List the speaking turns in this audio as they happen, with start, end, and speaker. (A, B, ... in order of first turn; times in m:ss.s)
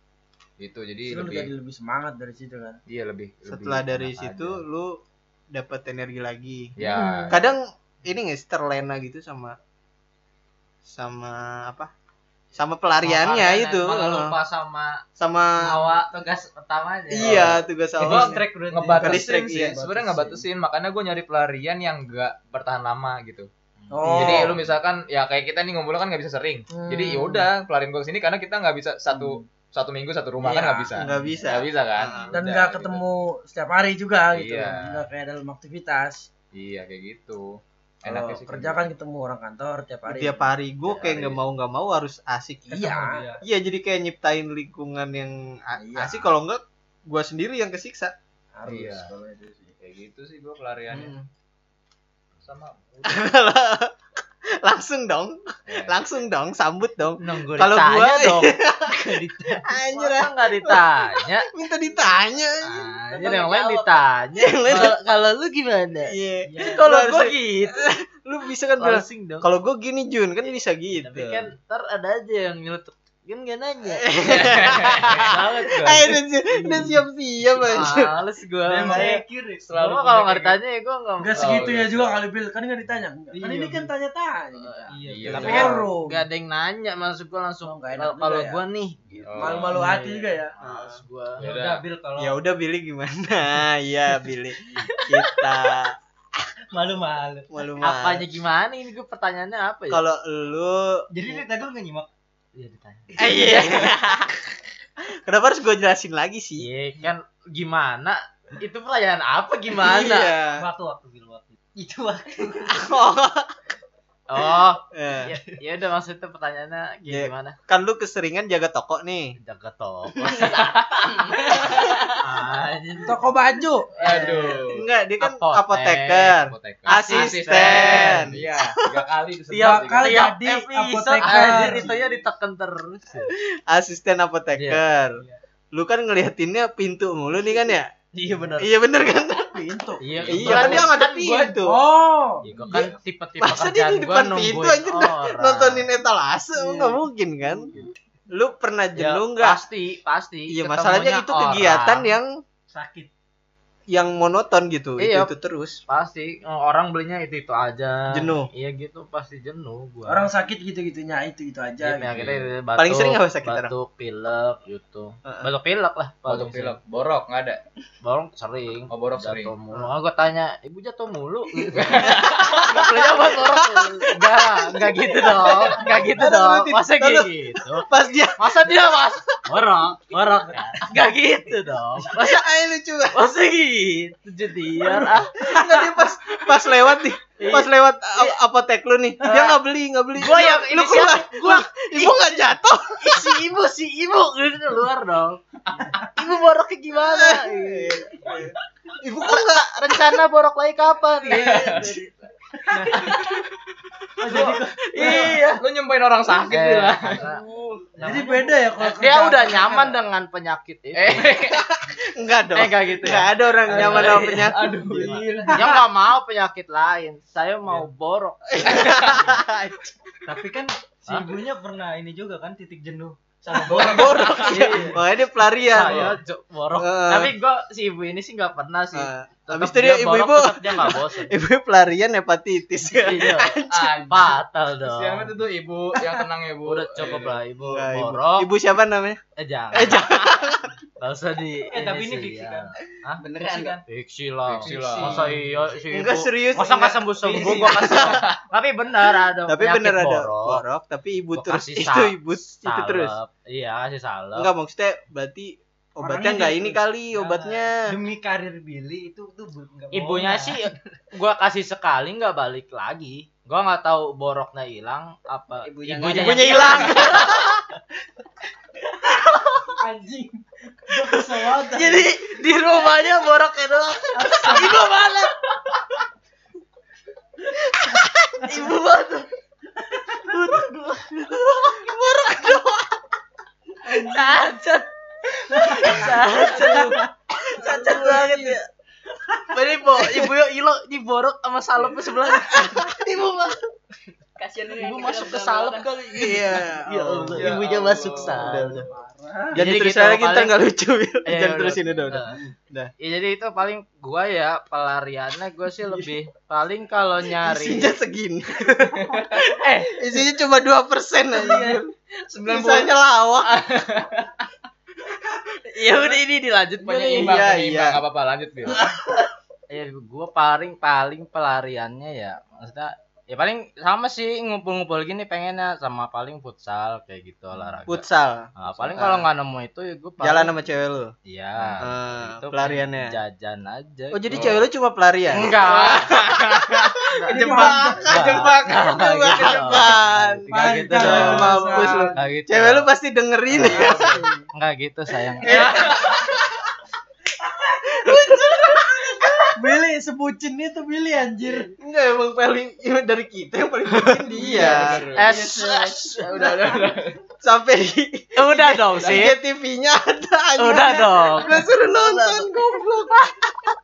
0:00.6-0:01.5 A
0:01.1-0:02.8 B
0:02.9-0:04.6 A
0:03.5-0:05.0 C
0:05.5-0:06.7 C
0:06.8-0:07.4 A
0:06.8-0:07.4 B
0:07.3-0:09.6 C
0:10.9-0:11.9 C
0:12.6-0:14.4 C
0:13.0-0:15.0 D
0:15.2-0:16.0 C
0:15.6-0:17.6 D
0:17.1-0:18.4 C
0:17.2-0:23.5 A
0:18.0-0:19.2 E
0:19.0-0:19.8 C
0:19.8-0:20.4 B
0:23.9-0:24.5 B
0:24.1-0:33.0 A
0:24.2-0:24.5 C
0:26.7-0:27.5 B
0:29.1-0:29.4 B
0:30.4-0:31.3 B
0:30.9-0:32.3 C
0:32.3-0:36.3 B
0:34.3-0:35.0 A
0:36.6-0:37.5 A
0:38.0-0:38.9 A
0:38.1-0:40.5 B
0:40.1-0:48.1 C
0:40.9-0:41.3 D
0:42.7-0:43.2 B
0:43.0-0:43.4 E
0:45.8-0:46.3 B
0:48.6-0:49.7 B
0:48.7-0:49.1 A
0:49.8-0:51.2 A
0:50.9-0:51.2 C
0:52.4-0:53.3 A
0:53.1-0:53.9 C
0:54.6-1:02.9 C
0:55.7-0:56.0 A
0:57.2-0:58.6 D
0:58.8-1:00.2 E
1:00.1-1:01.5 D
1:02.6-1:07.9 D
1:03.1-1:04.0 F
1:04.4-1:04.9 C
1:06.1-1:11.4 C
1:06.5-1:06.8 E
1:08.8-1:09.5 D
1:11.0-1:16.2 D
1:13.8-1:18.1 C
1:14.3-1:15.3 A
1:17.6-1:19.2 D
1:18.6-1:19.8 E
1:18.8-1:19.1 A
1:19.6-1:20.6 A
1:19.7-1:21.7 D
1:21.2-1:26.2 B
1:21.4-1:22.2 A
1:23.3-1:23.9 E
1:24.9-1:25.7 E
1:25.1-1:25.6 A
1:25.3-1:31.4 D
1:25.3-1:25.8 C
1:27.6-1:28.6 B
1:29.2-1:29.7 A
1:29.4-1:30.5 B
1:30.6-1:31.0 C
1:31.4-1:31.8 A
1:31.4-1:32.4 E
1:32.2-1:35.9 C
1:36.7-1:37.5 E
1:37.5-1:38.3 C
1:37.8-1:40.0 D
1:39.9-1:41.0 C
1:41.1-1:42.1 E
1:42.6-1:43.6 D
1:43.2-1:44.4 C
1:45.2-1:46.7 C
1:46.6-1:50.4 D
1:49.8-1:50.6 C
1:50.4-1:52.9 E
1:52.7-1:53.5 C
1:54.3-1:57.6 D
1:54.9-1:55.4 C
1:57.1-1:59.4 C
1:59.4-2:00.9 D
2:00.2-2:02.3 F
2:02.2-2:03.2 D
2:03.0-2:04.2 B
2:04.0-2:04.8 A
2:04.1-2:09.0 C
2:05.2-2:06.3 D
2:06.4-2:10.2 A
2:06.9-2:08.4 D
2:09.5-2:13.3 D
2:09.6-2:11.9 B
2:11.1-2:12.3 E
2:13.7-2:15.2 C
2:14.5-2:14.8 D
2:15.7-2:17.9 C
2:18.2-2:18.6 D
2:18.5-2:19.5 C
2:19.4-2:20.1 B
2:20.0-2:21.6 D
2:20.1-2:20.9 A
2:20.3-2:21.8 C
2:21.6-2:22.4 B
2:22.4-2:25.9 D
2:22.5-2:23.0 A
2:22.6-2:22.9 E
2:23.4-2:27.7 C
2:28.3-2:29.6 C
2:29.0-2:32.1 D
2:30.5-2:32.3 C
2:32.7-2:33.1 E
2:33.9-2:35.8 C
2:35.0-2:35.3 D
2:35.9-2:40.3 D
2:38.1-2:38.5 C
2:40.1-2:42.2 B
2:41.8-2:46.8 D
2:42.1-2:42.5 A
2:42.8-2:43.7 C
2:45.2-2:45.5 C
2:46.3-2:47.6 A
2:48.0-3:02.4 D
2:48.9-2:49.5 A
2:51.7-2:52.5 A
2:52.0-2:59.6 C
3:00.1-3:01.0 E
3:02.1-3:03.3 C
3:03.1-3:05.4 D
3:05.4-3:13.4 C
3:05.7-3:06.1 E
3:09.2-3:09.6 D
3:10.2-3:12.5 D
3:13.0-3:15.4 D
3:15.7-3:16.1 A
3:15.9-3:18.0 D
3:17.0-3:20.2 C
3:19.2-3:21.9 D
3:21.3-3:22.0 A
3:21.4-3:22.0 E
3:22.8-3:23.4 A
3:22.9-3:23.4 D
3:24.2-3:25.3 E
3:24.3-3:27.4 A
3:25.0-3:25.6 D
3:26.5-3:27.4 D
3:27.9-3:28.5 E
3:28.0-3:31.5 D
3:28.0-3:29.9 B
3:30.9-3:31.6 A
3:31.3-3:35.2 C
3:32.5-3:34.5 D
3:33.8-3:34.3 E
3:33.8-3:35.7 A
3:34.8-3:35.7 E
3:35.5-3:39.0 D
3:38.5-3:39.9 C
3:38.7-3:39.2 A
3:40.3-3:45.0 E
3:43.7-3:46.1 C
3:43.9-3:44.9 A
3:45.6-3:51.3 D
3:45.8-3:46.1 A
3:46.8-3:47.3 C
3:48.9-3:54.1 C
3:53.0-3:55.3 D
3:53.7-3:57.4 A
3:56.6-3:58.5 D
3:57.6-3:59.2 C
3:59.4-4:00.2 D
3:59.7-4:00.8 C
4:01.0-4:03.2 D
4:01.7-4:02.7 E
4:03.2-4:03.8 F
4:03.4-4:03.8 E
4:03.9-4:10.6 D
4:04.4-4:05.4 A
4:04.6-4:05.8 E
4:05.9-4:08.3 C
4:07.1-4:08.2 E
4:08.0-4:08.4 A
4:09.5-4:13.1 C
4:11.4-4:14.5 D
4:14.4-4:17.8 C
4:16.0-4:20.7 E
4:19.9-4:27.5 D
4:25.6-4:27.3 F
4:26.0-4:27.6 C
4:29.3-4:29.7 D
4:29.8-4:32.1 B
4:31.2-4:35.4 D
4:34.3-4:34.8 B
4:34.4-4:34.7 C
4:37.7-4:38.6 C
4:37.8-4:39.3 D
4:40.2-4:42.6 D
4:41.8-4:42.8 C
4:43.9-4:44.8 D
4:44.1-4:44.4 F
4:45.5-4:48.6 D
4:45.6-4:47.0 E
4:45.8-4:46.7 F
4:46.0-4:46.2 C
4:47.9-4:48.4 E
4:49.5-4:53.6 D
4:52.5-4:53.1 C
4:54.4-4:55.9 F
4:54.8-4:58.9 D
4:56.1-4:57.6 C
4:57.4-4:58.5 A
4:58.3-4:58.9 C
4:58.6-4:59.6 B
4:59.6-5:02.9 C
4:59.6-5:00.6 D
5:01.3-5:02.4 D
5:03.0-5:07.9 D
5:07.3-5:11.9 C
5:09.7-5:09.9 D
5:11.5-5:14.3 A
5:12.4-5:13.5 C
5:15.7-5:17.4 D
5:16.8-5:18.9 A
5:17.0-5:18.0 C
5:18.6-5:19.0 C
5:19.7-5:28.0 D
5:27.6-5:27.8 A
5:27.9-5:29.3 C
5:28.6-5:30.5 D
5:28.7-5:29.0 A
5:30.2-5:31.1 C
5:31.3-5:34.6 D
5:31.8-5:33.1 C
5:34.1-5:44.1 C
5:34.3-5:34.7 A
5:35.3-5:36.2 D
5:35.4-5:36.7 A
5:37.2-5:42.9 D
5:37.3-5:38.4 B
5:40.5-5:42.0 E
5:40.5-5:42.1 B
5:43.6-5:44.1 A
5:43.7-5:44.4 B
5:44.5-5:45.9 D
5:45.4-5:46.6 C
5:45.4-5:46.3 A
5:48.0-5:49.5 C
5:49.6-5:51.7 B
5:51.8-5:56.8 C
5:54.4-5:55.4 A
5:55.1-5:56.7 D
5:56.3-5:57.1 A
5:57.4-6:03.7 C
5:58.4-5:59.4 D
6:00.6-6:01.7 D